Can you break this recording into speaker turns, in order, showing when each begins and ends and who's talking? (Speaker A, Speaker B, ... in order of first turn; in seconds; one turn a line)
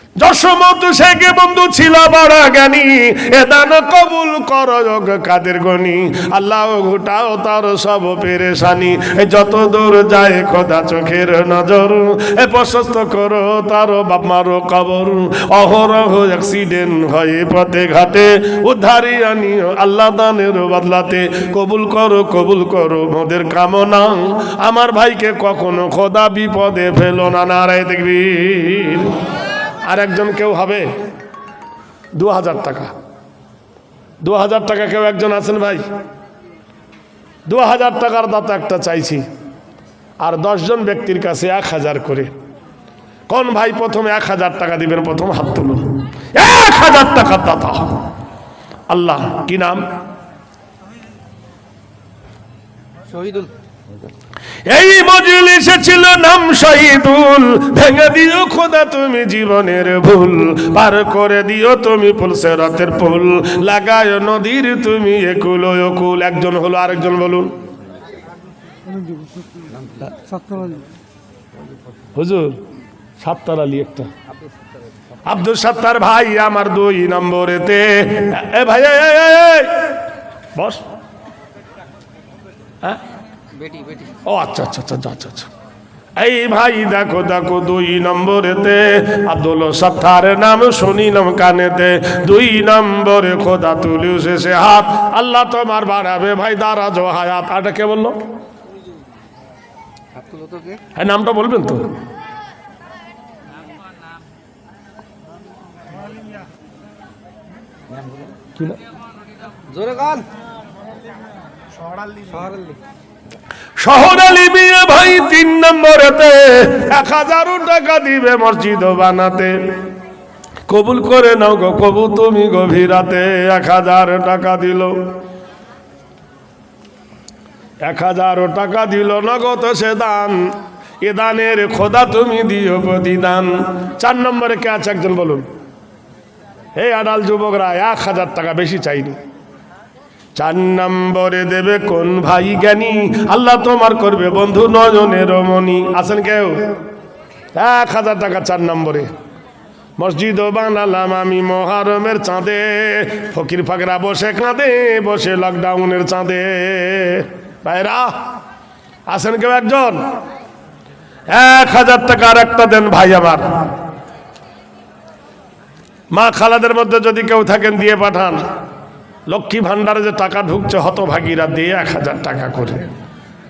Speaker A: 0.2-29.2
Speaker A: 29.9-30.9
Speaker A: 32.2-32.9
Speaker A: 34.2-35.8
Speaker A: 37.5-39.2
Speaker A: 40.2-42.3
Speaker A: 43.3-48.0
Speaker A: 48.9-49.8
Speaker B: 53.1-53.5
Speaker A: 54.7-67.5
Speaker A: 72.2-72.6
Speaker A: 73.2-74.1
Speaker A: 75.3-79.9
Speaker A: 80.6-80.8
Speaker B: 83.5-84.2
Speaker A: 84.3-85.5
Speaker A: 86.2-98.2
Speaker B: 100.1-100.8
Speaker A: 101.0-101.9
Speaker B: 109.7-110.3
Speaker B: 112.1-112.8
Speaker A: 113.8-119.6
Speaker A: 120.7-125.0
Speaker A: 127.9-130.5
Speaker A: 131.0-135.4
Speaker A: 136.8-139.2
Speaker A: 140.4-146.7
Speaker A: 147.6-149.1
Speaker A: 150.0-158.2
Speaker A: 159.1-160.0
Speaker A: 161.3-163.6
Speaker A: 166.1-168.4
Speaker A: 169.3-172.9